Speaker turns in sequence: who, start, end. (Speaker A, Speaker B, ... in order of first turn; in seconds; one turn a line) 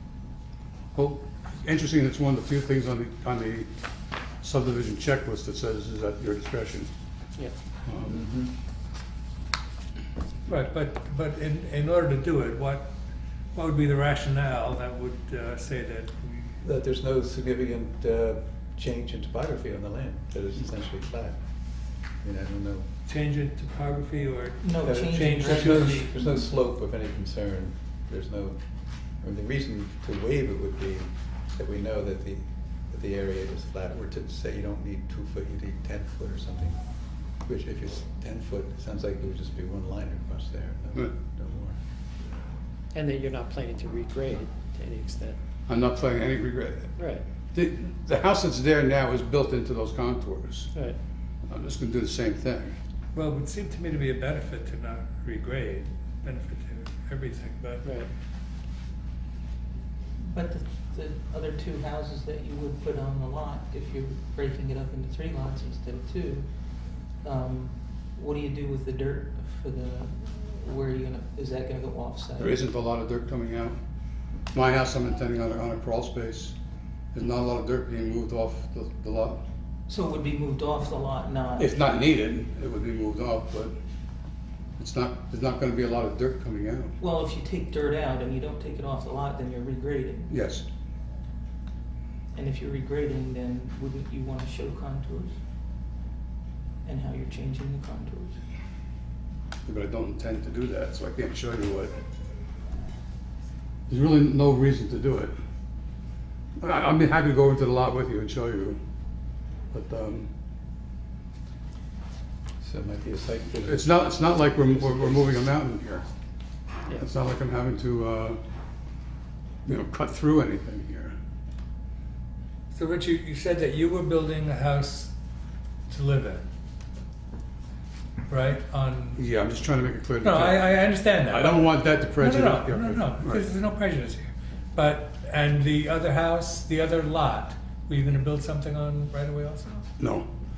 Speaker A: 0.9-3.7
Speaker A: 4.4-6.9
Speaker A: 7.8-8.3
Speaker B: 8.0-8.6
Speaker C: 10.5-12.9
Speaker C: 13.5-16.6
Speaker B: 16.6-22.9
Speaker C: 23.1-26.1
Speaker D: 24.6-26.0
Speaker B: 24.8-36.8
Speaker B: 37.4-41.8
Speaker E: 42.9-45.4
Speaker A: 45.7-47.0
Speaker E: 47.0-47.2
Speaker A: 47.5-50.7
Speaker A: 51.5-52.8
Speaker C: 53.1-57.9
Speaker E: 57.8-58.1
Speaker D: 60.2-72.6
Speaker A: 72.4-73.8
Speaker A: 74.5-76.6
Speaker A: 77.1-79.4
Speaker D: 79.9-81.7
Speaker A: 81.6-83.8
Speaker A: 84.8-86.9
Speaker D: 87.0-90.3
Speaker A: 90.3-90.7
Speaker D: 92.3-95.3
Speaker D: 96.8-98.4
Speaker A: 99.7-102.0
Speaker A: 103.9-105.3
Speaker A: 106.6-108.8
Speaker A: 109.7-110.3
Speaker B: 112.6-115.5
Speaker A: 113.7-116.1
Speaker A: 116.9-118.4
Speaker A: 119.7-121.2
Speaker C: 122.7-125.1
Speaker C: 125.9-126.5
Speaker C: 128.3-129.2
Speaker A: 129.2-130.7
Speaker C: 130.2-139.9
Speaker A: 131.3-133.4
Speaker A: 140.0-140.3